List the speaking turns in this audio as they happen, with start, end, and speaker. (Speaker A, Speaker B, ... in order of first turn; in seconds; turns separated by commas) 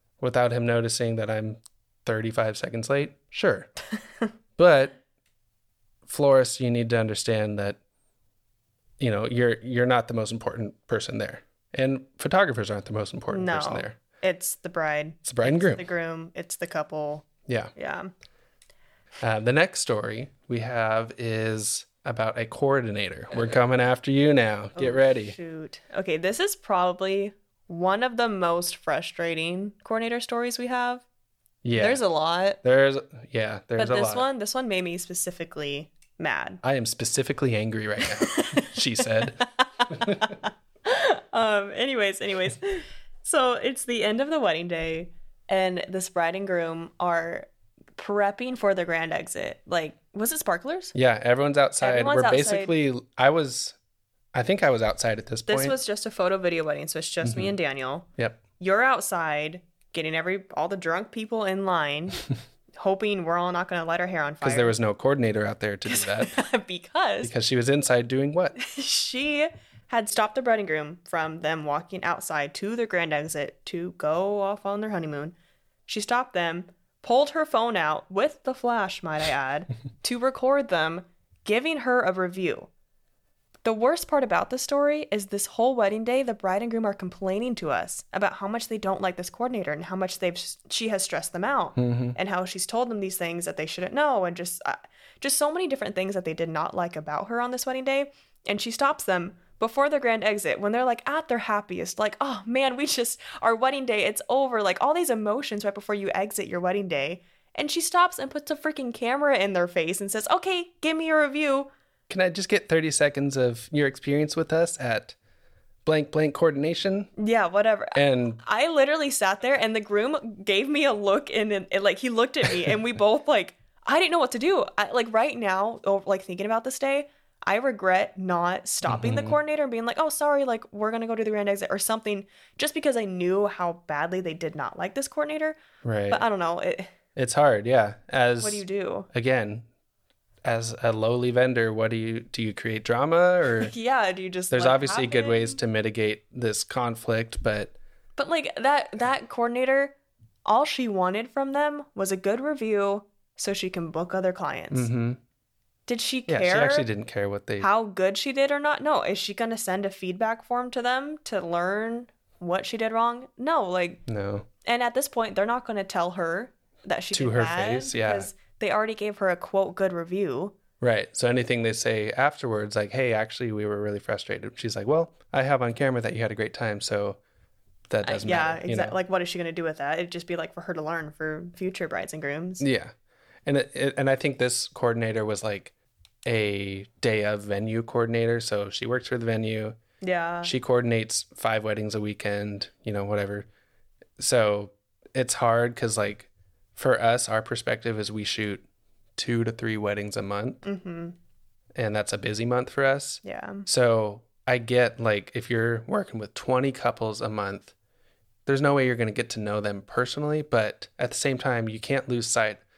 Speaker A: 0.2-3.7, Speaker A: 4.6-5.0, Speaker A: 6.1-7.8, Speaker A: 9.0-14.0, Speaker B: 13.3-18.1, Speaker A: 15.3-15.8, Speaker A: 17.5-17.7, Speaker A: 19.2-25.4, Speaker B: 24.8-31.1, Speaker A: 31.6-32.0, Speaker B: 31.8-32.6, Speaker A: 32.6-34.3, Speaker B: 33.8-36.6, Speaker A: 36.6-40.4, Speaker B: 38.2-39.0, Speaker B: 39.8-50.9, Speaker A: 50.9-53.8, Speaker B: 51.8-52.7, Speaker A: 54.3-55.8, Speaker B: 55.5-58.1, Speaker A: 57.2-57.5, Speaker B: 58.6-62.3, Speaker B: 62.8-64.8, Speaker A: 64.4-66.4, Speaker B: 65.9-67.3, Speaker A: 67.2-68.6, Speaker B: 68.6-75.3, Speaker B: 75.9-82.7, Speaker B: 83.7-111.7, Speaker A: 91.8-92.2, Speaker A: 112.1-115.2, Speaker A: 115.8-117.1, Speaker B: 117.2-135.6, Speaker A: 118.0-118.4, Speaker A: 128.8-129.4, Speaker A: 135.8-136.2, Speaker B: 136.1-136.9, Speaker A: 137.2-139.7, Speaker B: 138.4-139.1, Speaker A: 140.4-143.7, Speaker B: 143.6-145.6, Speaker A: 144.5-147.8, Speaker B: 148.2-154.9, Speaker A: 154.7-155.2, Speaker B: 155.9-156.9, Speaker A: 156.3-157.7, Speaker B: 157.6-164.0, Speaker A: 164.1-164.5, Speaker B: 164.7-170.6, Speaker A: 167.1-168.3, Speaker A: 170.8-177.2, Speaker A: 177.9-179.0, Speaker B: 178.0-182.7, Speaker A: 182.6-182.9, Speaker A: 183.4-185.7, Speaker A: 186.3-189.8, Speaker B: 190.0-190.5, Speaker A: 190.4-193.5, Speaker A: 194.2-198.6, Speaker A: 199.2-200.6, Speaker B: 200.6-201.2, Speaker A: 201.8-207.7, Speaker B: 203.2-203.7, Speaker A: 208.5-212.6